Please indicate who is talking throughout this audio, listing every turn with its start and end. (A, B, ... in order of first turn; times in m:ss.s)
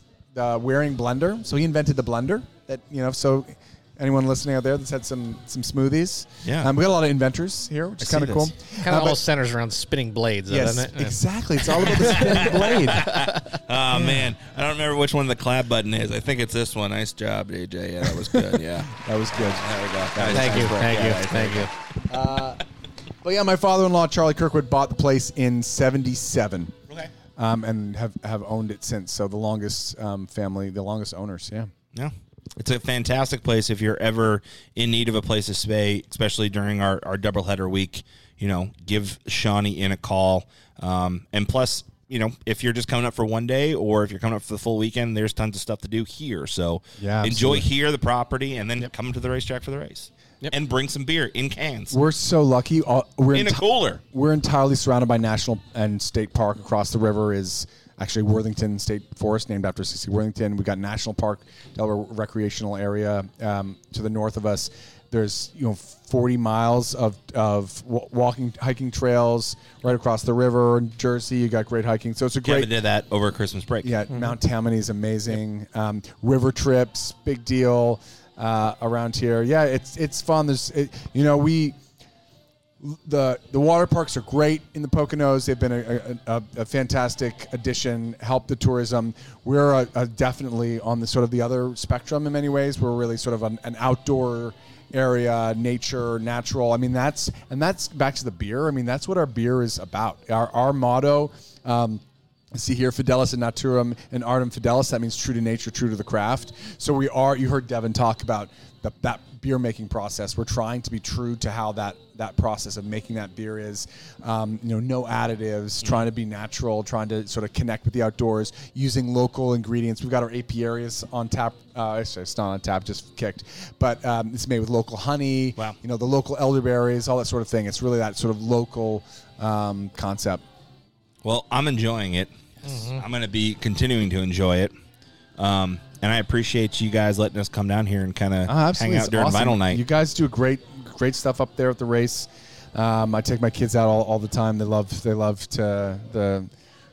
0:00.3-0:09.2 A
0:06.4-0:06.7 B
0:08.0-0:08.5 B
0:08.8-0:11.2 C
0:10.5-0:13.1 A
0:12.1-0:21.7 B
0:13.0-0:13.3 C
0:18.9-0:21.2 A
0:20.3-0:21.7 C
0:22.1-0:22.6 A
0:23.2-0:26.7 A
0:27.4-0:31.7 A
0:31.9-0:52.0 B
0:47.0-0:47.6 A
0:51.9-1:12.7 A
0:53.3-0:54.0 B
1:12.4-1:14.0 B
1:13.8-1:21.8 A
1:22.8-1:42.0 A
1:42.5-2:10.4 A
2:11.2-2:14.7 B
2:12.6-2:13.0 C
2:15.4-2:19.8 B
2:18.5-2:26.5 A